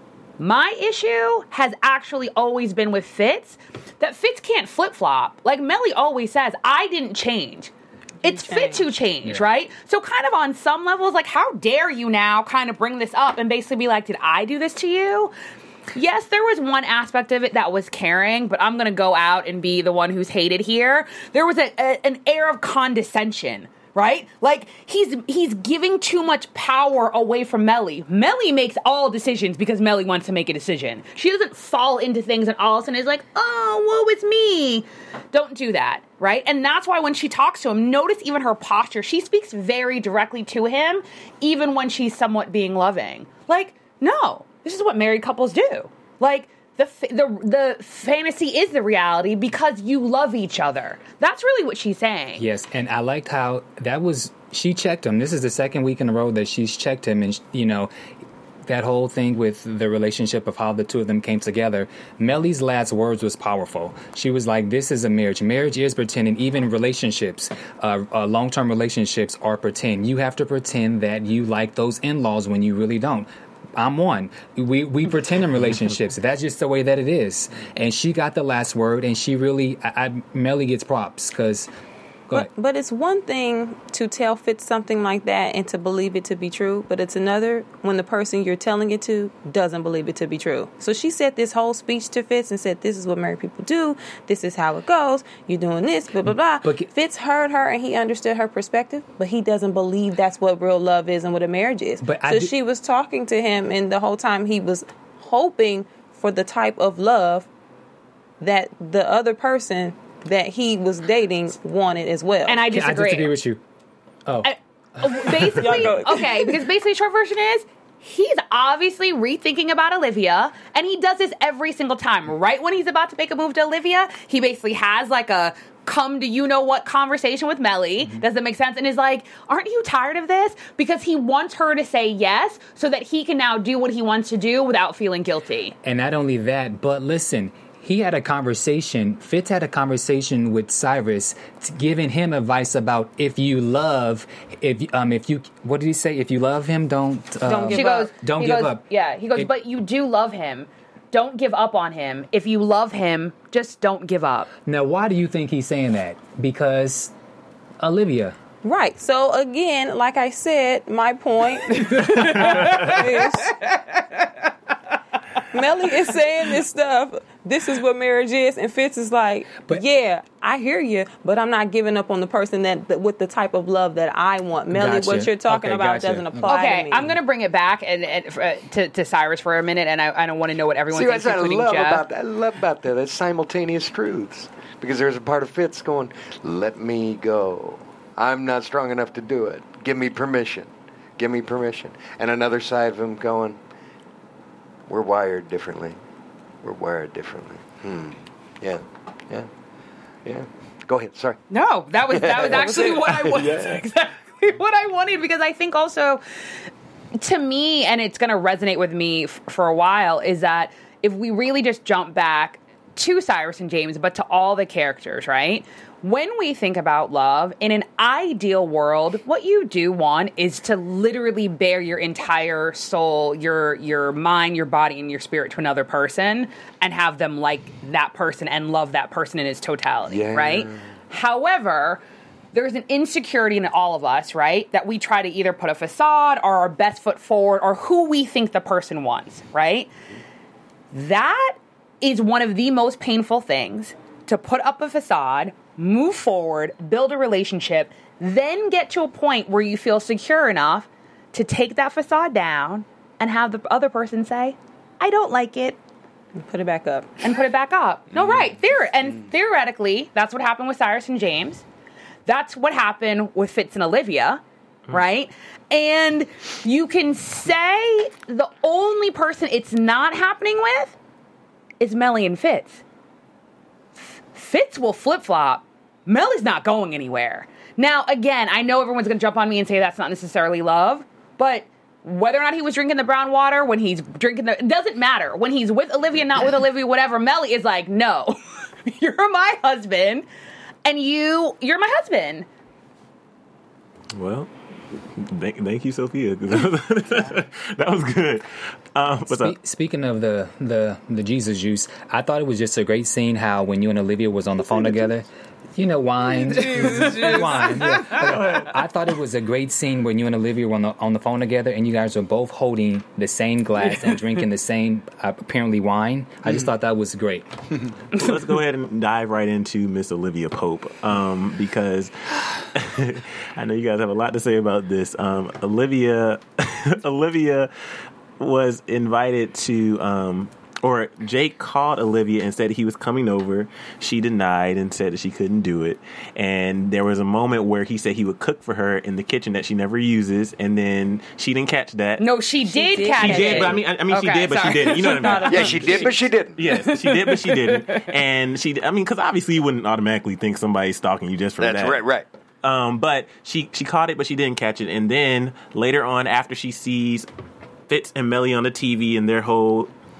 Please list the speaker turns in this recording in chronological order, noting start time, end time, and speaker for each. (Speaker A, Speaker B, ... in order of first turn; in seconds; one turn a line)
Speaker A: 0.4-7.7
Speaker B: 8.2-8.9
Speaker A: 8.2-15.3
Speaker A: 15.9-52.4
Speaker C: 52.4-57.9
Speaker C: 58.7-81.7
Speaker B: 82.3-107.5
Speaker C: 96.3-96.9
Speaker C: 102.0-102.5
Speaker B: 108.4-112.7
Speaker A: 112.5-113.3
Speaker C: 112.7-113.6
Speaker C: 114.3-116.1
Speaker A: 114.4-135.7
Speaker B: 115.6-116.6
Speaker C: 135.8-148.8
Speaker B: 147.4-148.1
Speaker A: 147.7-154.5
Speaker C: 154.7-157.1
Speaker C: 157.8-158.3
Speaker B: 158.6-163.8
Speaker A: 161.9-163.0
Speaker B: 165.5-177.1
Speaker C: 174.7-176.5
Speaker A: 176.4-182.0
Speaker D: 180.9-193.6
Speaker D: 194.9-195.9
Speaker D: 196.6-199.5
Speaker D: 200.2-201.4
Speaker A: 201.5-206.2
Speaker D: 202.1-203.7
Speaker B: 202.6-203.2
Speaker E: 203.2-203.7
Speaker A: 207.1-232.0
Speaker D: 230.1-230.9
Speaker A: 232.5-239.9
Speaker A: 240.9-255.8
Speaker B: 256.4-257.3
Speaker A: 257.2-261.6
Speaker A: 262.3-270.9
Speaker A: 271.8-272.8
Speaker A: 274.0-290.2
Speaker A: 290.8-292.4
Speaker E: 294.1-294.5
Speaker E: 295.1-299.6
Speaker C: 299.3-317.5
Speaker B: 306.9-307.3
Speaker E: 308.3-308.7
Speaker E: 318.1-327.7
Speaker E: 328.4-342.2
Speaker A: 342.2-346.1
Speaker B: 342.6-343.9
Speaker E: 343.2-352.0
Speaker B: 344.8-346.0
Speaker D: 345.5-346.6
Speaker A: 346.7-348.1
Speaker D: 351.6-352.2
Speaker E: 352.6-357.3
Speaker E: 357.9-359.9